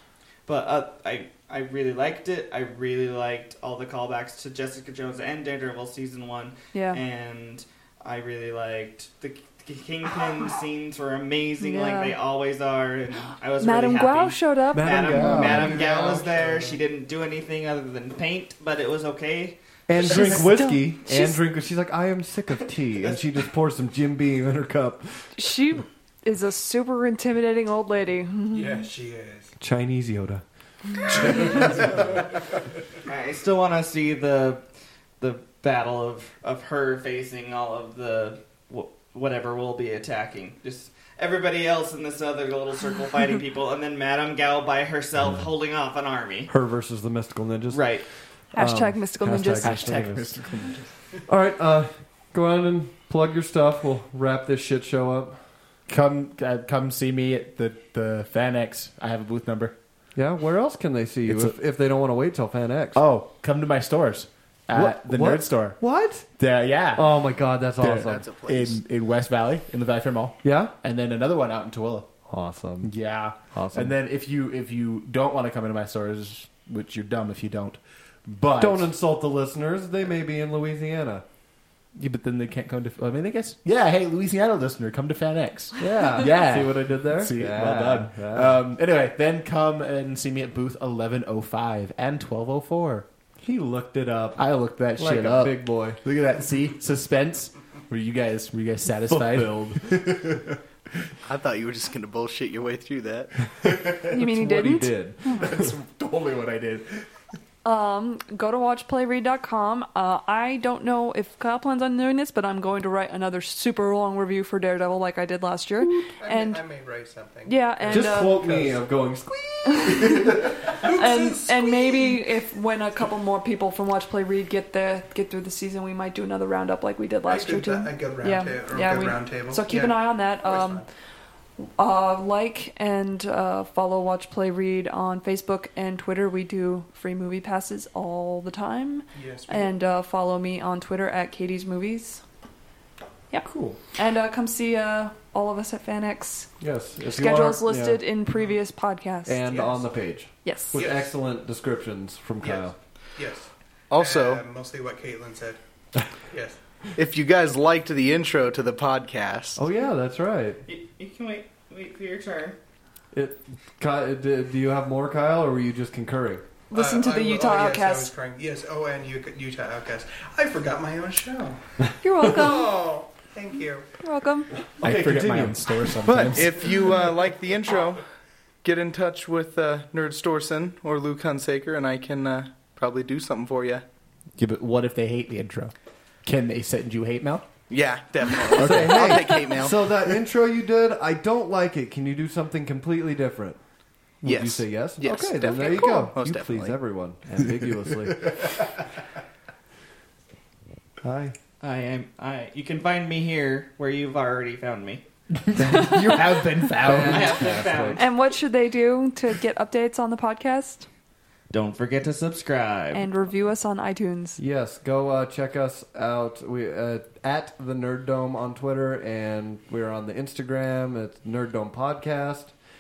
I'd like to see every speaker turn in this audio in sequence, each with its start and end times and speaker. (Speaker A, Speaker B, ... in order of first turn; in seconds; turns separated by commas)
Speaker A: 0.5-19.6, Speaker B: 6.7-7.0, Speaker B: 11.6-12.2, Speaker B: 13.6-15.4, Speaker C: 14.7-15.8, Speaker D: 15.3-16.8, Speaker C: 19.9-25.3, Speaker B: 20.0-21.4, Speaker B: 25.4-28.9, Speaker D: 28.5-29.5, Speaker C: 29.6-30.4, Speaker C: 31.1-31.9, Speaker D: 31.2-32.2, Speaker A: 33.1-34.6, Speaker A: 35.2-46.5, Speaker C: 45.2-45.5, Speaker C: 46.5-47.9, Speaker A: 47.7-48.0, Speaker B: 48.5-50.0, Speaker C: 48.5-50.4, Speaker E: 49.6-50.9, Speaker C: 51.3-55.4, Speaker E: 55.9-59.8, Speaker C: 60.2-63.0, Speaker E: 61.2-61.5, Speaker E: 63.0-65.8, Speaker C: 64.7-66.3, Speaker E: 66.4-67.1, Speaker C: 66.9-68.2, Speaker E: 67.8-72.1, Speaker F: 68.1-68.8, Speaker C: 70.4-70.7, Speaker C: 72.3-72.9, Speaker E: 72.8-78.9, Speaker C: 73.5-74.0, Speaker C: 78.6-81.2, Speaker E: 82.0-93.0, Speaker C: 85.8-88.6, Speaker C: 93.4-94.4, Speaker E: 94.4-100.4, Speaker C: 95.0-96.0, Speaker C: 99.1-100.0, Speaker F: 101.3-103.5, Speaker E: 103.7-104.1, Speaker B: 104.1-105.4, Speaker C: 104.1-105.7, Speaker E: 105.3-107.0, Speaker B: 107.7-116.6, Speaker D: 116.0-118.8, Speaker B: 117.5-118.5, Speaker C: 117.9-120.4, Speaker B: 119.7-130.9, Speaker D: 120.6-122.2, Speaker D: 127.3-130.9, Speaker B: 131.7-142.2, Speaker D: 139.1-139.7, Speaker B: 143.3-146.5, Speaker C: 143.5-143.8, Speaker C: 146.6-148.0, Speaker B: 147.0-149.4, Speaker C: 149.3-152.8, Speaker D: 149.5-149.9, Speaker B: 150.4-150.8, Speaker D: 150.8-151.1, Speaker D: 152.4-155.6, Speaker F: 153.9-154.4, Speaker D: 156.3-156.6, Speaker F: 157.0-159.6, Speaker C: 159.6-160.6, Speaker A: 160.7-162.6, Speaker C: 163.1-166.4, Speaker B: 166.7-168.1, Speaker D: 166.7-171.6, Speaker B: 172.0-172.8, Speaker D: 172.2-173.9, Speaker B: 174.0-174.5, Speaker C: 174.8-175.8, Speaker E: 174.8-176.7, Speaker F: 176.1-178.0, Speaker F: 178.6-183.8, Speaker E: 184.4-185.7, Speaker E: 186.2-187.6, Speaker F: 187.7-189.8, Speaker E: 188.5-189.3, Speaker C: 188.6-193.6, Speaker C: 194.2-198.6, Speaker F: 194.2-196.8, Speaker C: 201.0-201.4, Speaker A: 201.6-205.0, Speaker E: 205.4-207.8, Speaker B: 205.7-206.3, Speaker C: 206.8-208.1, Speaker A: 206.9-208.1, Speaker B: 208.0-210.9, Speaker A: 211.5-213.1, Speaker B: 212.9-214.4, Speaker C: 214.4-222.5